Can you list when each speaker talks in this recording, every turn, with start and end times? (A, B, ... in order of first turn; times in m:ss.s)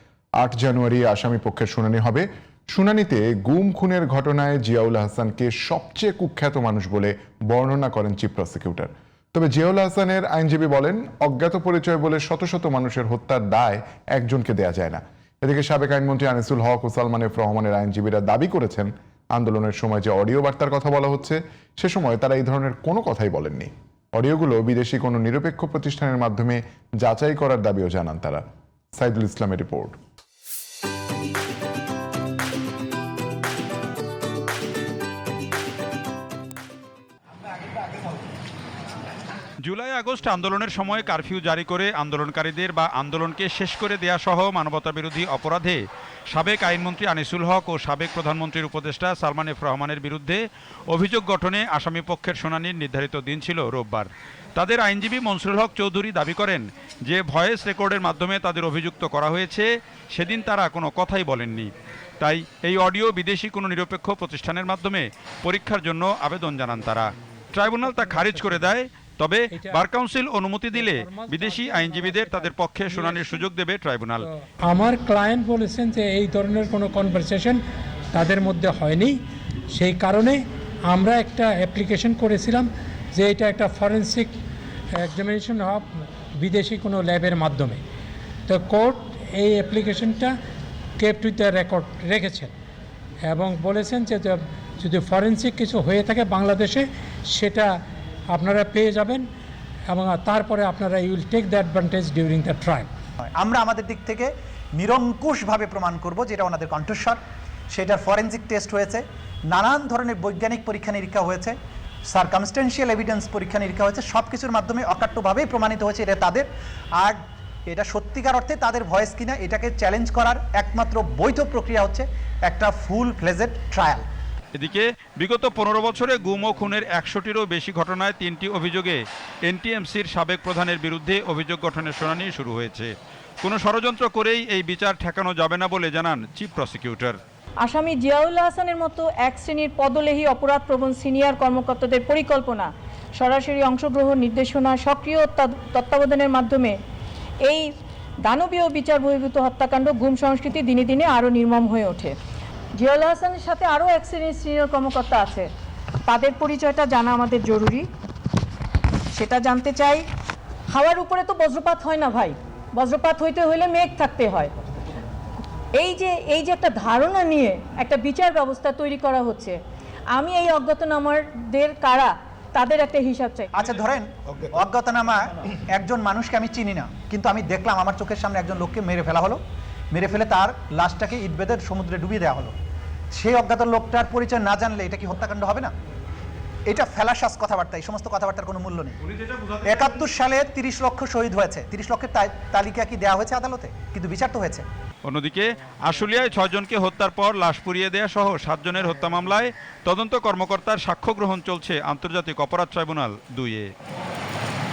0:00.4-0:28.4 A
0:29.0-0:30.0 A
0:39.6-1:14.3 B
1:07.8-1:08.7 C
1:09.5-1:09.8 C
1:10.7-1:13.4 C
1:14.2-1:17.6 C
1:18.1-1:19.2 C
1:19.7-1:24.3 C
1:25.0-1:25.8 C
1:26.4-1:27.8 C
1:28.5-1:30.3 C
1:31.0-1:32.5 C
1:33.3-1:37.7 C
1:38.3-1:39.2 C
1:39.9-1:42.9 C
1:43.2-1:47.2 D
1:47.7-1:51.5 D
1:52.0-2:04.0 D
2:04.5-2:12.9 B
2:13.4-2:17.2 B
2:17.6-2:26.8 E
2:27.4-2:27.7 E
2:28.2-2:32.2 E
2:32.8-2:35.5 E
2:36.0-2:37.9 E
2:39.1-2:40.1 E
2:40.7-2:44.6 E
2:45.7-2:49.6 E
2:50.1-2:53.6 E
2:53.6-2:59.4 D
2:59.9-3:02.5 D
3:03.1-3:05.7 D
3:06.6-3:09.0 D
3:09.1-3:09.9 B
3:09.6-3:14.6 D
3:15.0-3:23.7 B